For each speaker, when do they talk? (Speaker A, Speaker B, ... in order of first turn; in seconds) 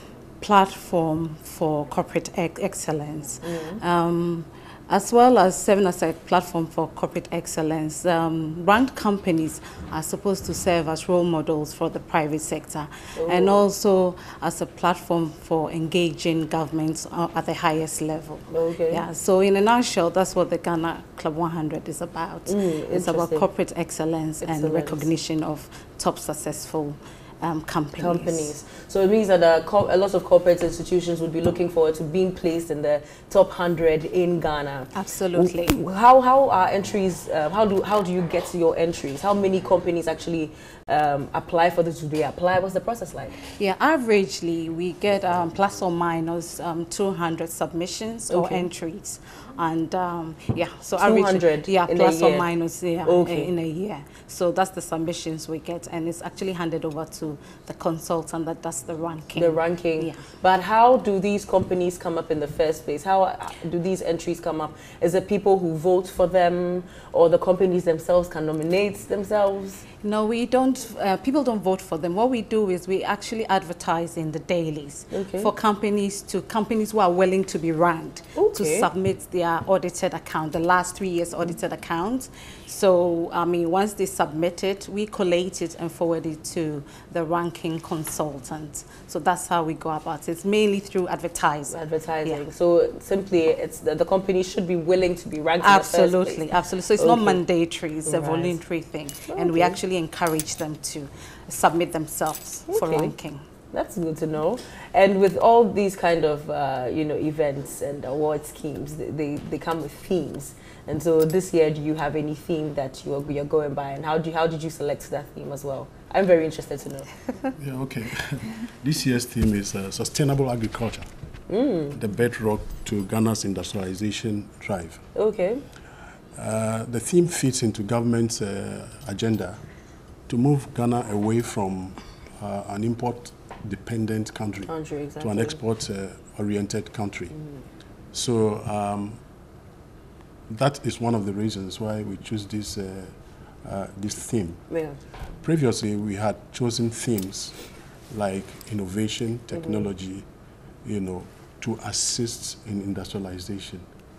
Speaker A: 0.4-28.5, 34.9-35.8, 43.5-60.2, 70.0-92.4, 95.6-103.4
Speaker B: 3.4-3.8, 13.2-13.6, 18.5-19.0, 22.5-23.5, 24.4-25.1, 28.0-43.4, 48.3-48.7, 51.0-52.5, 53.0-53.5, 59.4-69.8, 75.1-75.5, 78.3-78.9, 91.7-97.4, 98.1-98.6, 99.3-99.8, 102.7-103.1, 103.7-117.1, 121.5-122.0, 125.2-125.6, 134.7-135.6, 144.7-145.0, 149.5-149.9
Speaker C: 117.6-121.1, 121.9-125.0, 126.4-129.6, 130.3-137.3, 138.1-139.2, 140.5-143.1, 143.7-144.6, 145.4-150.3, 150.8-153.9